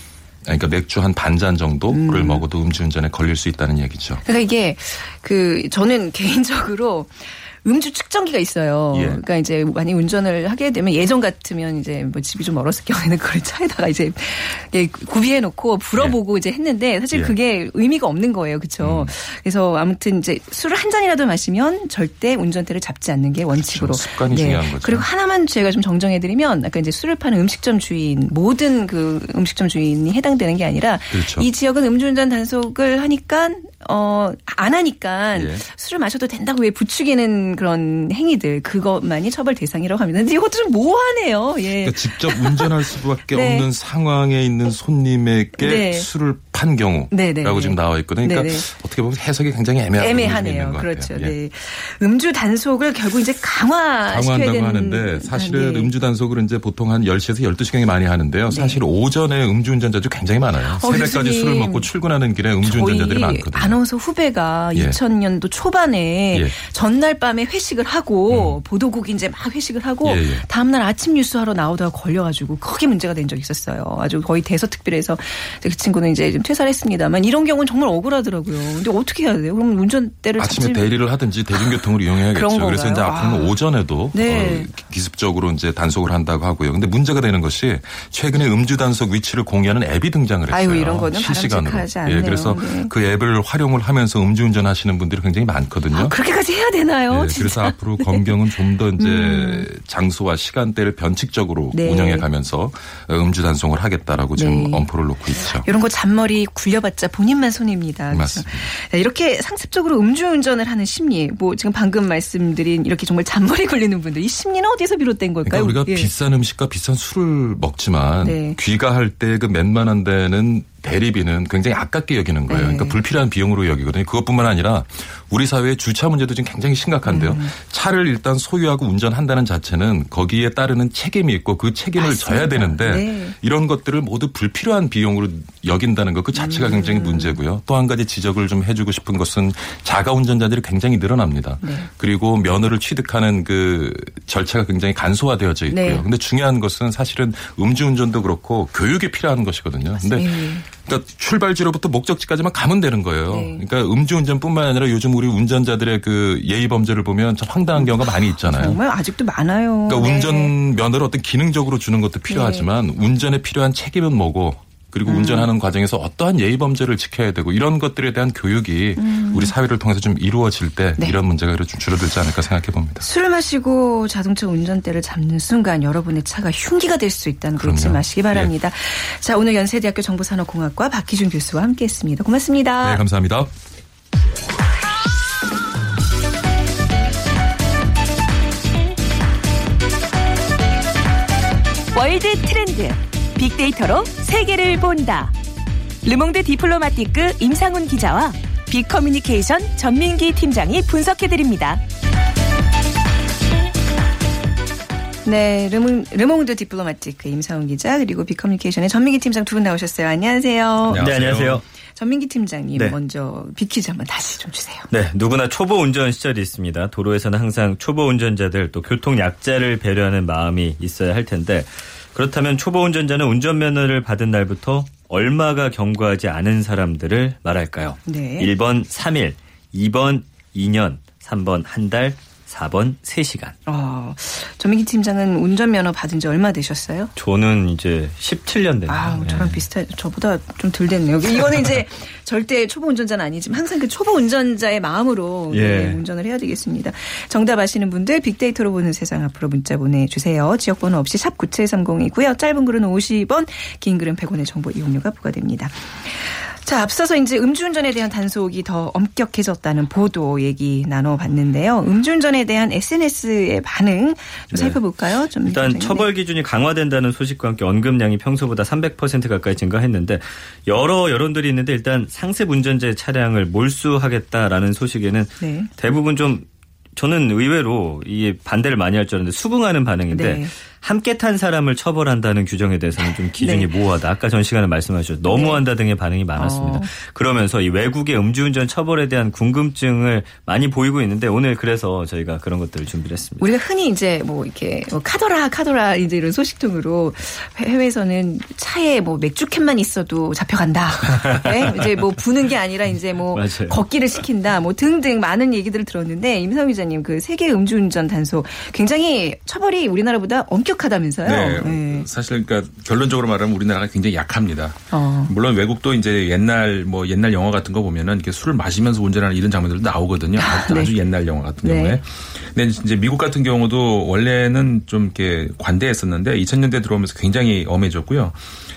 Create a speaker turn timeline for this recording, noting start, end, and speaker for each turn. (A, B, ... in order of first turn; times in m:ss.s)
0:00.4-0:04.2 A
0:01.9-0:02.4 B
0:04.2-0:43.7 B
0:08.9-0:09.2 A
0:18.8-0:19.1 A
0:23.5-0:25.1 A
0:31.1-0:31.5 A
0:35.3-0:35.6 A
0:41.8-0:51.4 A
0:45.6-0:46.1 B
0:47.1-0:48.7 B
0:50.0-0:55.9 B
0:54.1-1:03.8 A
0:58.5-0:58.8 B
1:00.7-1:01.9 B
1:02.6-1:20.9 B
1:08.3-1:08.6 A
1:10.0-1:10.4 A
1:20.4-1:36.2 A
1:21.5-1:23.6 B
1:24.1-1:24.7 B
1:30.5-1:32.9 B
1:35.9-1:38.4 B
1:37.1-1:45.7 A
1:39.0-1:39.7 B
1:41.7-1:42.3 B
1:44.4-1:44.9 B
1:45.6-1:56.1 B
1:48.1-1:48.7 A
1:55.4-2:38.8 A
1:58.2-1:58.6 B
2:02.5-2:03.0 B
2:07.0-2:07.5 B
2:12.0-2:13.4 B
2:16.4-2:17.4 B
2:21.6-2:21.9 B
2:25.7-2:26.0 B
2:30.1-2:30.7 B
2:33.3-2:33.6 B
2:37.8-2:40.5 B
2:39.9-2:53.1 A
2:42.3-2:42.7 B
2:45.1-2:45.5 B
2:49.0-2:49.5 B
2:53.0-3:03.0 B
2:57.6-2:58.5 A
3:02.8-3:03.5 A
3:11.9-3:15.3 C
3:16.0-3:21.8 C
3:25.2-3:31.1 B
3:30.9-3:31.6 D
3:30.9-3:31.6 E
3:32.0-3:34.9 B
3:34.9-3:53.6 E
3:48.1-3:48.5 B
3:53.7-3:57.1 B
3:57.2-3:59.6 E
3:58.9-4:26.1 B
4:05.5-4:06.0 E
4:24.5-4:24.8 E
4:25.4-4:53.5 E
4:35.4-4:35.7 B
4:40.1-4:40.5 B
4:43.4-4:43.7 B
4:45.3-4:45.6 B
4:46.4-4:46.9 B
4:53.4-5:12.1 B
5:01.1-5:01.8 E
5:03.3-5:03.8 E
5:11.2-5:28.4 D
5:14.9-5:15.3 B
5:20.4-5:21.0 B
5:21.6-5:22.0 B